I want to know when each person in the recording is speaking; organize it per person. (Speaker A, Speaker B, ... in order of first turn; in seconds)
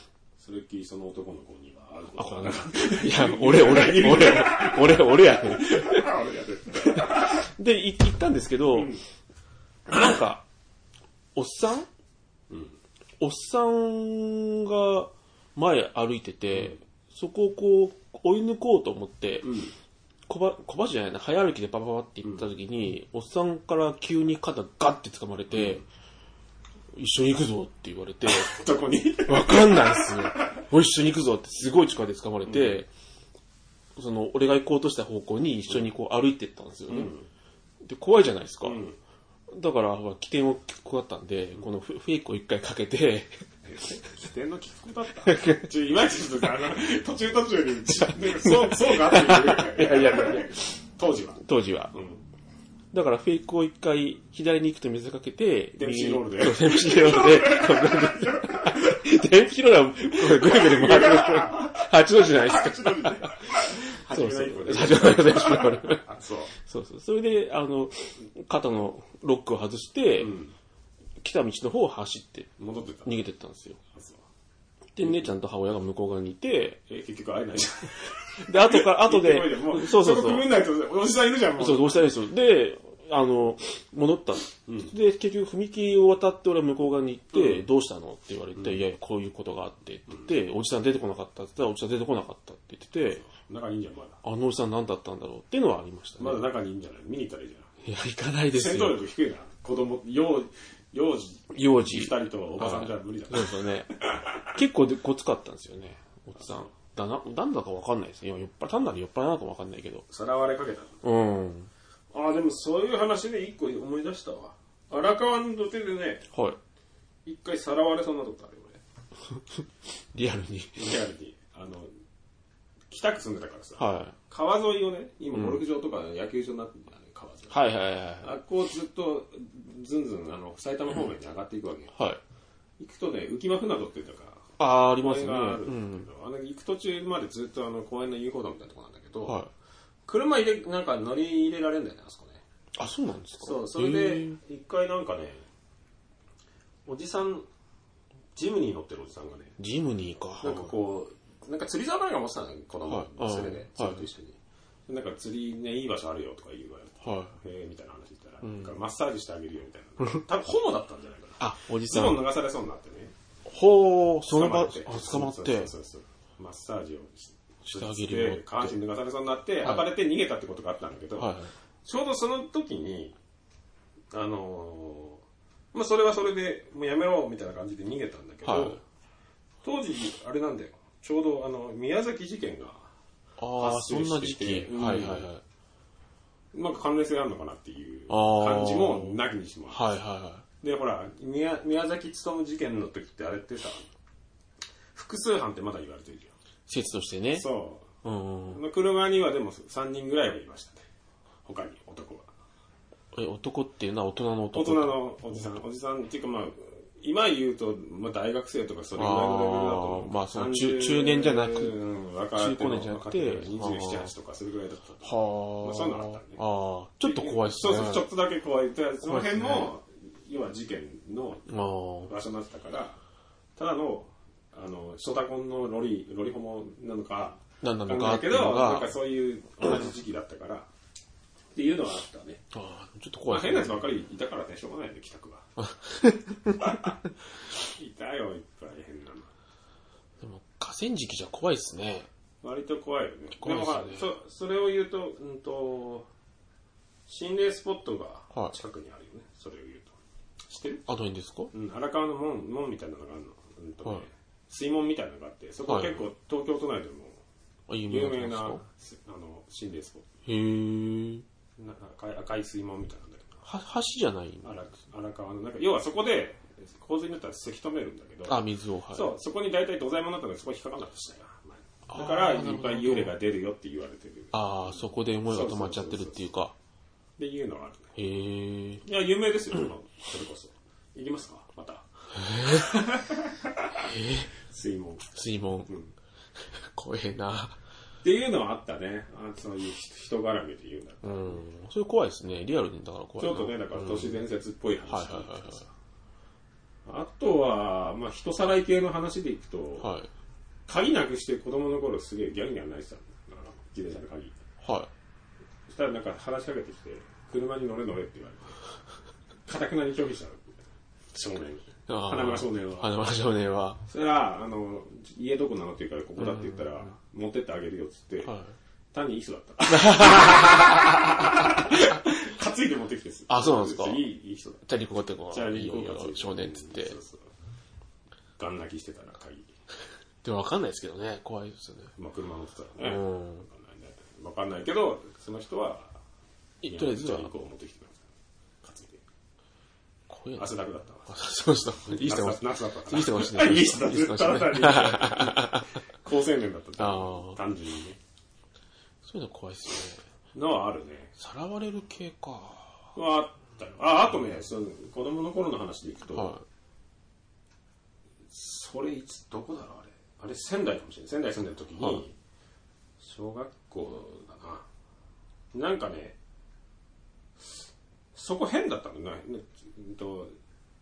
Speaker A: 0.4-7.4, 19.4-19.7, 25.5-25.8, 28.2-30.6, 32.5-32.8, 36.9-37.3, 38.6-39.0, 43.6-52.2, 55.8-59.0, 60.1-66.5, 70.2-70.5, 72.6-73.2, 73.9-74.2, 76.9-82.1, 84.7-84.9, 87.3-87.6, 93.2-94.2, 96.2-97.7, 98.5-104.5, 110.1-111.0, 112.1-116.2, 117.2-118.8, 120.7-121.9, 122.9-127.7, 128.2-131.9, 132.8-139.4, 140.1-142.4, 143.4-145.4, 146.8-147.5, 148.3-149.6, 150.4-154.4, 154.9-163.1, 164.2-173.2, 174.1-175.2, 175.7-178.8, 179.6-182.9, 183.5-185.3, 186.5-189.9, 190.6-193.9, 194.9-196.3, 197.3-197.9, 198.4-200.8, 201.4-202.3, 204.5-216.4, 217.0-221.5, 222.0-223.0, 223.6-230.7, 231.5-232.4, 233.3-235.5, 236.6-237.0, 237.6-239.3, 242.4-246.1, 247.1-249.9, 250.5-250.8, 251.5-257.2, 257.9-260.1, 261.6-263.3, 264.4-276.2, 277.2-277.9, 278.8-283.9, 284.4-285.1, 288.0-291.4, 293.2-295.7, 296.9-299.9, 300.7-304.4, 305.7-308.6, 309.4-310.5, 311.1-312.9, 313.9-318.3, 318.9-324.6, 325.3-327.2, 328.4-329.5, 332.0-336.0, 336.6-338.1, 338.6-339.0, 340.4-341.2, 341.8-348.0, 350.3-351.1, 352.9-356.4, 358.3-362.1, 363.0-364.6, 365.5-366.2, 368.1-370.3
Speaker B: 2.2-6.1, 6.8-9.0, 9.9-10.4, 11.3-11.9, 13.2-19.6, 20.3-25.8, 26.9-28.6, 29.2-32.9, 34.0-37.1, 37.8-38.8, 39.5-43.3, 45.2-45.7, 48.1-50.6, 51.4-51.9, 52.9-66.0, 66.6-70.4, 71.2-72.5, 73.0-73.8, 74.9-76.8, 78.4-80.5, 81.5-93.2, 94.2-96.4, 97.8-99.0, 101.5-103.9, 104.5-110.0, 111.0-111.7, 116.3-116.6, 119.4-120.9, 123.8-124.1, 125.3-125.6, 127.5-128.3, 131.9-132.2, 134.6-136.1, 139.2-139.5, 142.8-144.4, 149.6-150.7, 152.9-154.0, 157.0-157.3, 158.4-158.7, 161.4-162.2, 163.4-165.7, 167.6-168.8, 171.2-171.5, 178.4-178.8, 183.4-185.4, 188.1-190.4, 196.7-197.4, 198.0-198.6, 203.1-205.5, 208.9-211.7, 212.4-214.1, 215.0-218.1, 219.0-219.7, 221.5-222.1, 227.6-228.9, 232.5-233.9, 235.6-236.8, 240.2-242.1, 243.4-244.1, 250.9-251.5, 255.6-256.0, 257.7-258.6, 260.2-261.2, 263.4-264.5, 268.3-269.1, 271.9-273.1, 274.3-276.5, 277.9-278.8, 282.1-282.7, 283.8-284.3, 285.1-285.7, 286.4-287.6, 291.0-294.2, 294.9-295.6, 299.8-300.1, 304.6-304.9, 311.9-313.8, 316.2-316.7, 318.2-318.5, 319.7-321.2, 323.3-324.1, 324.6-327.0, 330.2-331.9, 332.8-333.4, 336.6-337.3, 340.1-340.5, 341.1-345.7, 346.8-347.4, 349.0-350.0, 351.2-352.9, 356.1-356.4